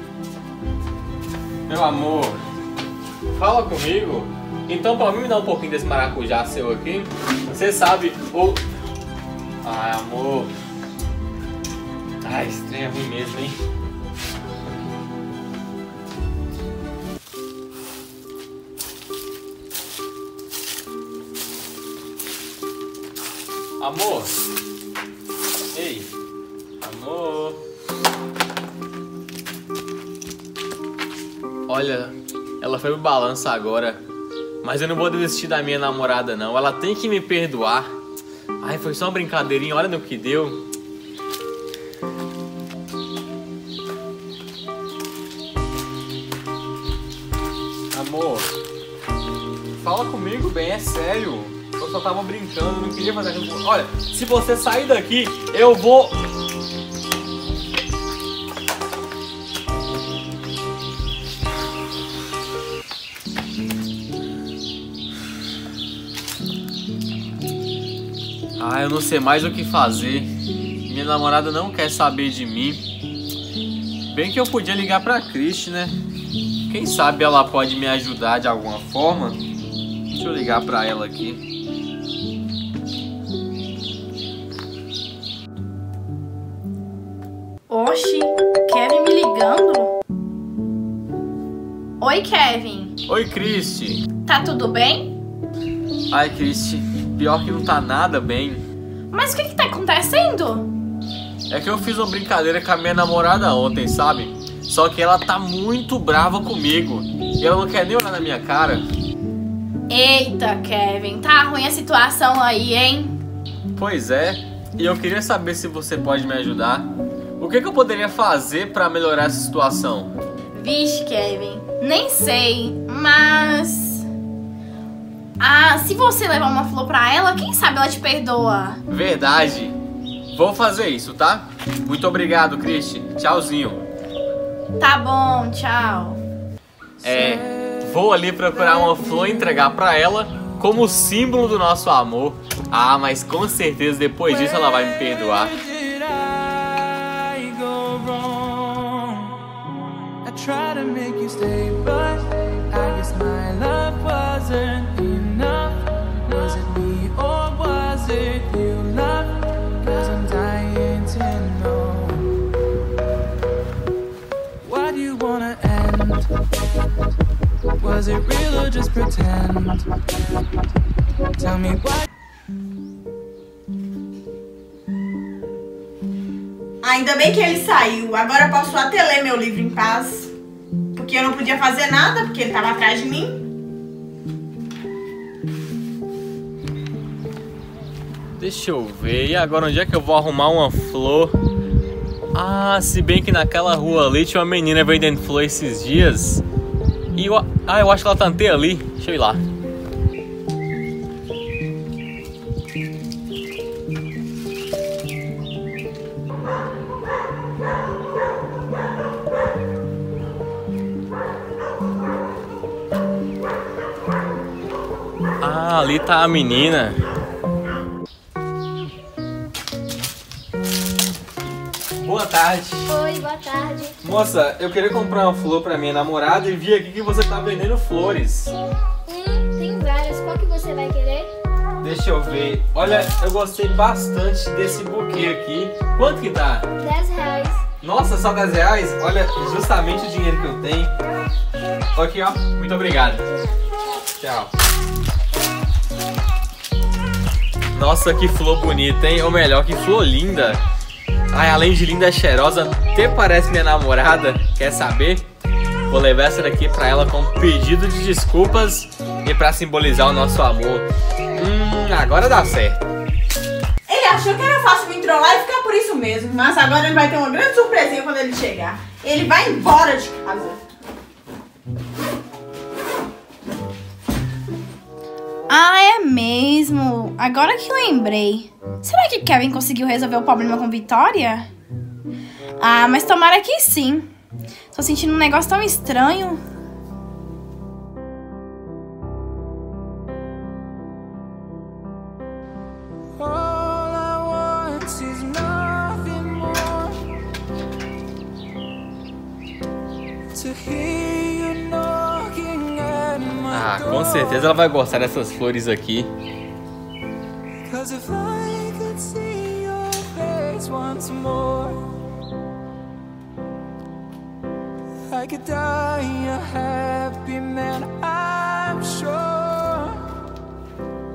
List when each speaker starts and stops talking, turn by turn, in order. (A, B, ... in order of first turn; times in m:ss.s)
0:01.7-0:02.4 A
0:03.3-0:08.6 A
0:09.6-0:10.5 A
0:12.2-0:13.6 A
0:23.8-0:24.4 A
0:25.7-0:26.1 A
0:26.8-0:27.6 A
0:31.7-0:34.0 A
0:34.6-0:38.0 A
0:38.6-0:40.7 A
0:47.9-0:48.5 A
0:49.8-0:56.2 A
1:08.6-1:10.3 A
1:10.8-1:12.8 A
1:14.1-1:16.0 A
1:16.7-1:19.4 A
1:20.1-1:21.4 A
1:27.7-1:29.9 B
1:32.0-1:33.0 B
1:33.1-1:34.1 A
1:34.3-1:35.2 B
1:36.1-1:38.6 A
1:39.1-1:40.7 B
1:41.5-1:48.9 A
1:49.9-1:53.2 B
1:53.7-2:00.2 A
2:00.5-2:04.1 B
2:05.4-2:08.8 B
2:08.9-2:09.8 A
2:10.3-2:13.8 A
2:14.8-2:16.2 B
2:17.0-2:25.5 A
2:17.1-2:17.5 C
2:25.3-2:29.4 C
2:30.2-2:42.3 C
2:44.6-2:46.3 C
2:47.8-2:49.9 C
2:51.4-2:52.1 C
2:56.8-3:00.3 D
3:01.0-3:03.4 D
3:08.4-3:11.4 A
3:12.3-3:16.4 A
3:17.1-3:19.4 A
3:35.4-3:37.0 A
3:42.0-3:42.9 A
3:42.9-3:43.9 E
3:44.0-3:48.5 A
3:49.1-3:51.3 E
3:51.8-3:56.7 A
3:56.8-3:57.6 E
3:57.8-4:00.9 A
4:02.0-4:03.3 A
4:04.2-4:04.5 A
4:07.7-4:10.6 A
4:11.3-4:15.2 A
4:15.9-4:22.8 A
4:23.9-4:30.6 D
4:35.5-4:41.5 B
4:42.6-4:44.1 B
4:44.7-4:46.4 B
4:53.2-4:57.1 C
5:00.3-5:04.5 C
5:03.5-5:06.1 A
5:07.6-5:11.9 C
5:15.1-5:20.1 C